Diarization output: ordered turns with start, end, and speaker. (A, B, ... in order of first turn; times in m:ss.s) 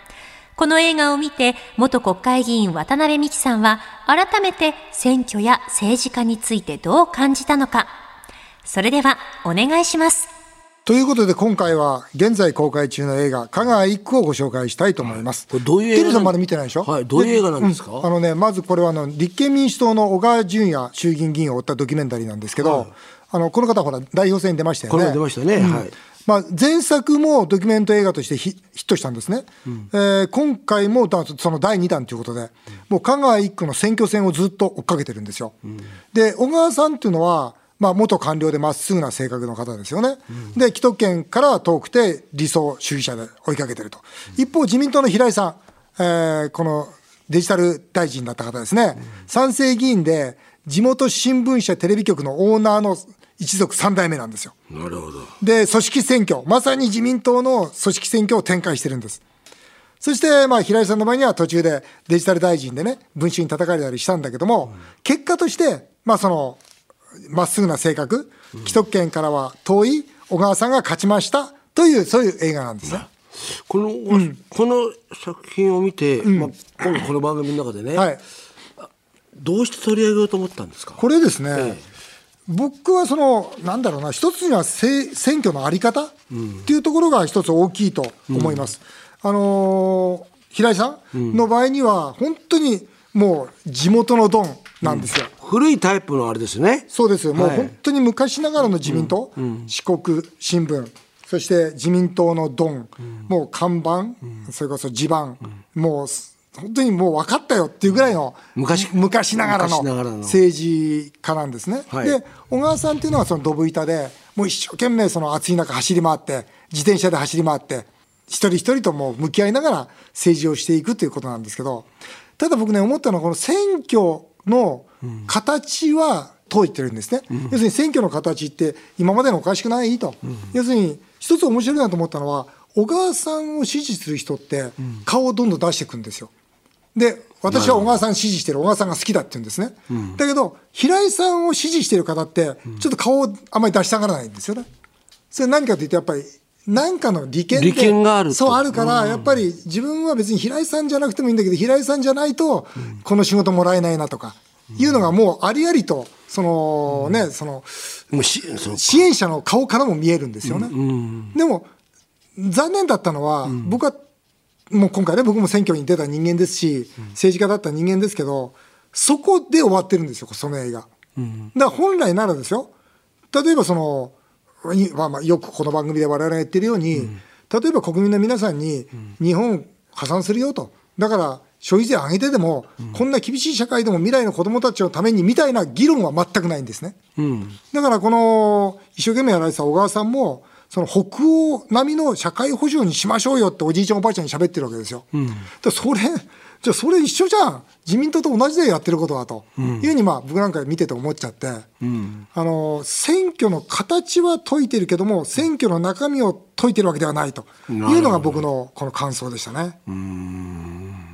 0:00.6-0:07.9 A
0:08.6-0:10.3 A
0:10.8-0:35.5 B
0:15.5-0:18.1 C
0:22.6-0:22.9 C
0:24.9-0:25.9 C
0:36.1-0:54.5 B
0:54.7-0:55.3 C
0:55.4-0:59.2 B
1:00.0-1:06.6 B
1:07.2-1:13.1 B
1:13.7-1:18.1 C
1:14.1-1:14.4 B
1:16.2-1:16.5 B
1:17.9-1:18.2 B
1:19.4-1:21.0 C
1:21.0-1:21.8 B
1:21.5-1:21.8 C
1:22.5-1:26.1 B
1:26.3-1:26.6 C
1:26.6-1:35.3 B
1:28.3-1:28.6 C
1:31.1-1:31.4 C
1:34.8-1:37.7 C
1:36.9-2:01.9 B
1:38.8-1:39.7 C
1:48.5-1:50.4 C
1:51.9-1:52.2 C
2:02.4-2:16.3 B
2:16.9-2:24.7 B
2:17.5-2:17.9 C
2:19.9-2:20.2 C
2:25.3-2:38.0 B
2:27.5-2:29.3 C
2:38.1-2:39.0 C
2:38.7-2:40.7 B
2:40.4-2:41.3 C
2:41.3-2:41.7 B
2:42.4-2:44.0 B
2:43.5-2:43.7 C
2:44.7-2:50.9 B
2:51.2-2:51.5 C
2:51.5-2:52.7 B
2:53.3-3:07.0 B
3:07.2-3:07.6 C
3:07.7-3:15.1 B
3:15.1-3:15.4 C
3:15.6-3:21.7 B
3:19.6-3:19.9 C
3:21.8-3:22.2 C
3:22.3-3:29.8 B
3:27.7-3:28.4 C
3:29.9-3:31.0 C